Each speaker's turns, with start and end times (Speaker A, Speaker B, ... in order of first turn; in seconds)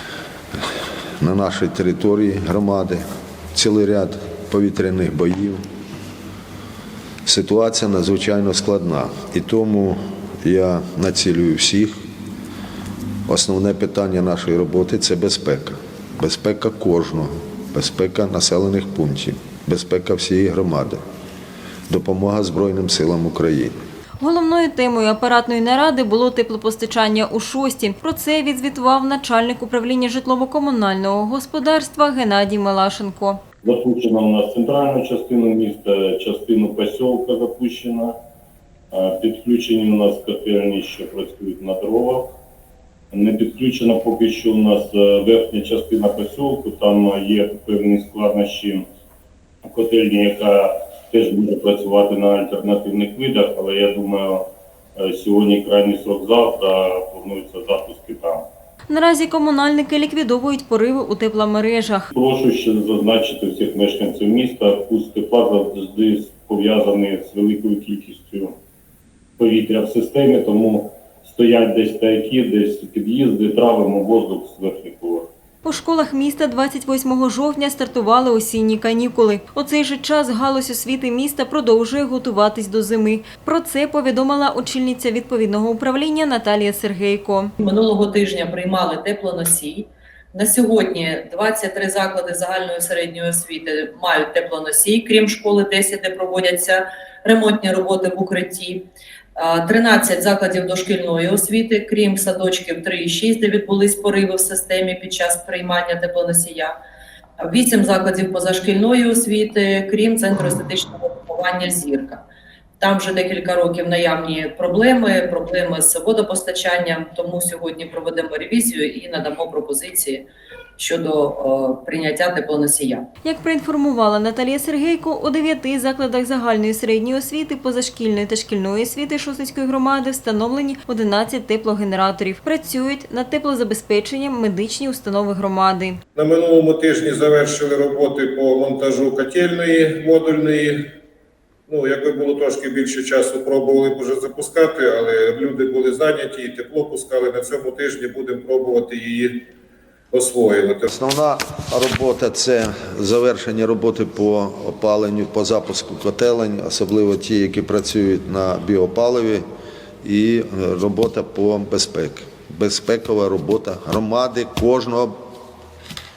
Speaker A: 1.2-3.0, 3.5-5.6, 7.2-12.0, 13.3-21.0, 21.9-23.7, 150.9-159.4, 160.0-165.2
Speaker B: 24.2-33.4, 58.9-62.1, 75.6-87.5, 123.2-136.0
Speaker C: 33.6-38.1, 38.9-42.3, 43.1-48.8, 49.6-58.5, 62.1-68.5, 69.4-75.3
Speaker D: 87.6-106.7, 107.4-112.2, 112.8-120.3, 120.8-123.1
Speaker E: 136.1-140.8, 141.7-149.4, 150.1-150.9